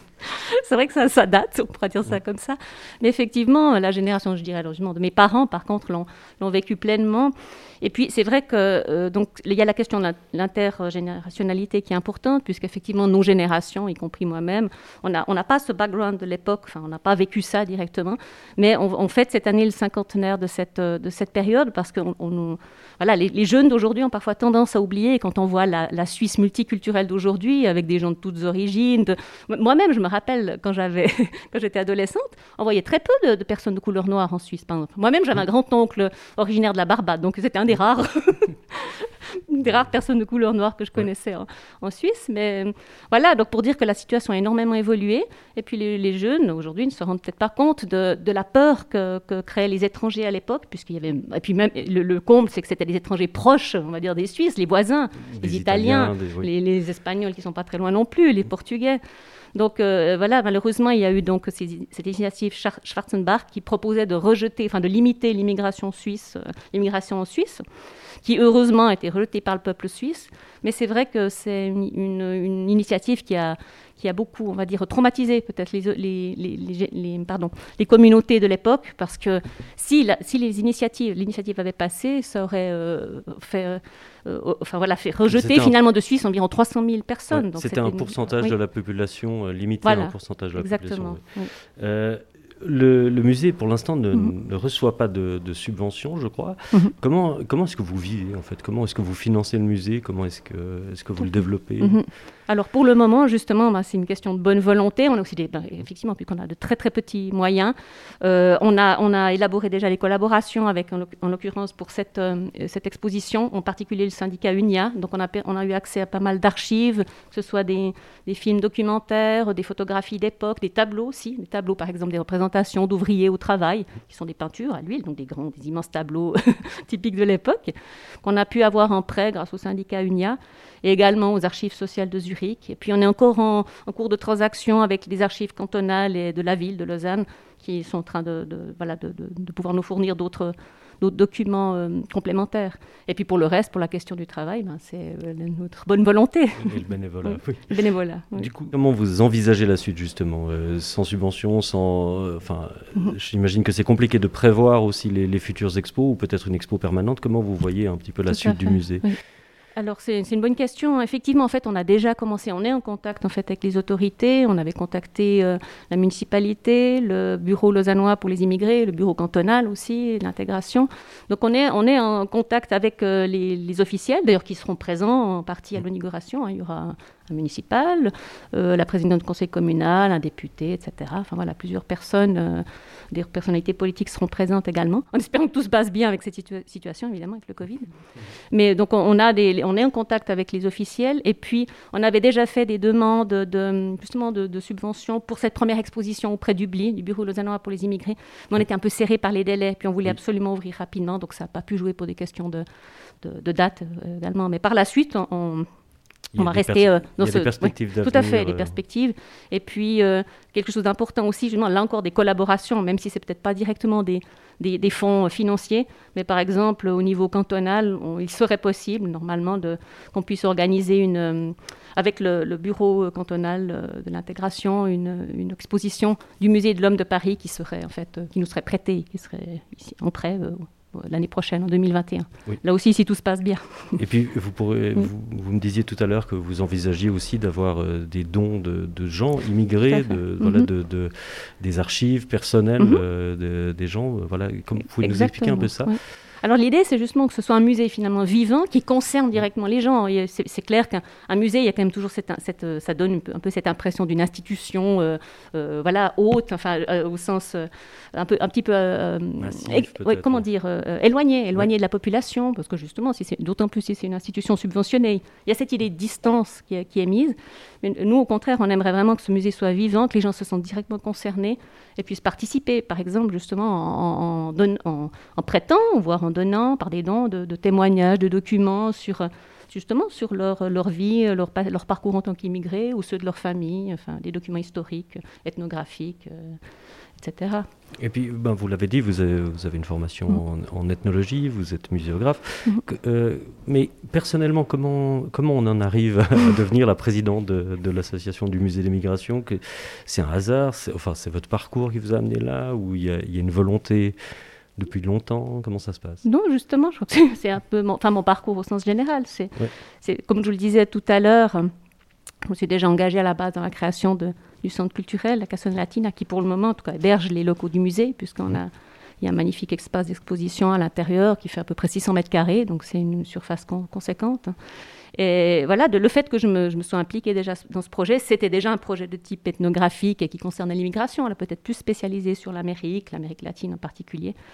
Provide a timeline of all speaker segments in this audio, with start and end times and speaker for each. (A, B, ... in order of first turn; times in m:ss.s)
0:00.3-0:59.0 A
0:55.2-0:56.5 B
0:59.6-1:07.6 A
1:08.2-1:28.6 A
1:25.3-1:25.8 B
1:27.3-1:42.0 B
1:29.8-1:31.5 A
1:41.2-2:26.6 A
2:26.6-2:27.8 B
2:27.2-2:28.5 A
2:28.3-2:39.1 B
2:38.3-2:39.2 A
2:39.8-3:07.9 A
3:08.5-3:22.6 A
3:23.2-3:25.7 A
3:26.3-3:28.8 B
3:26.4-3:54.0 A
3:54.0-4:06.0 B
3:59.9-4:00.7 A
4:05.0-4:46.6 A
4:19.4-4:20.5 B
4:47.2-4:47.7 A
4:48.0-5:04.2 B
5:04.8-5:06.2 B
5:06.2-5:11.7 A
5:12.5-5:24.6 A
5:25.1-5:34.4 A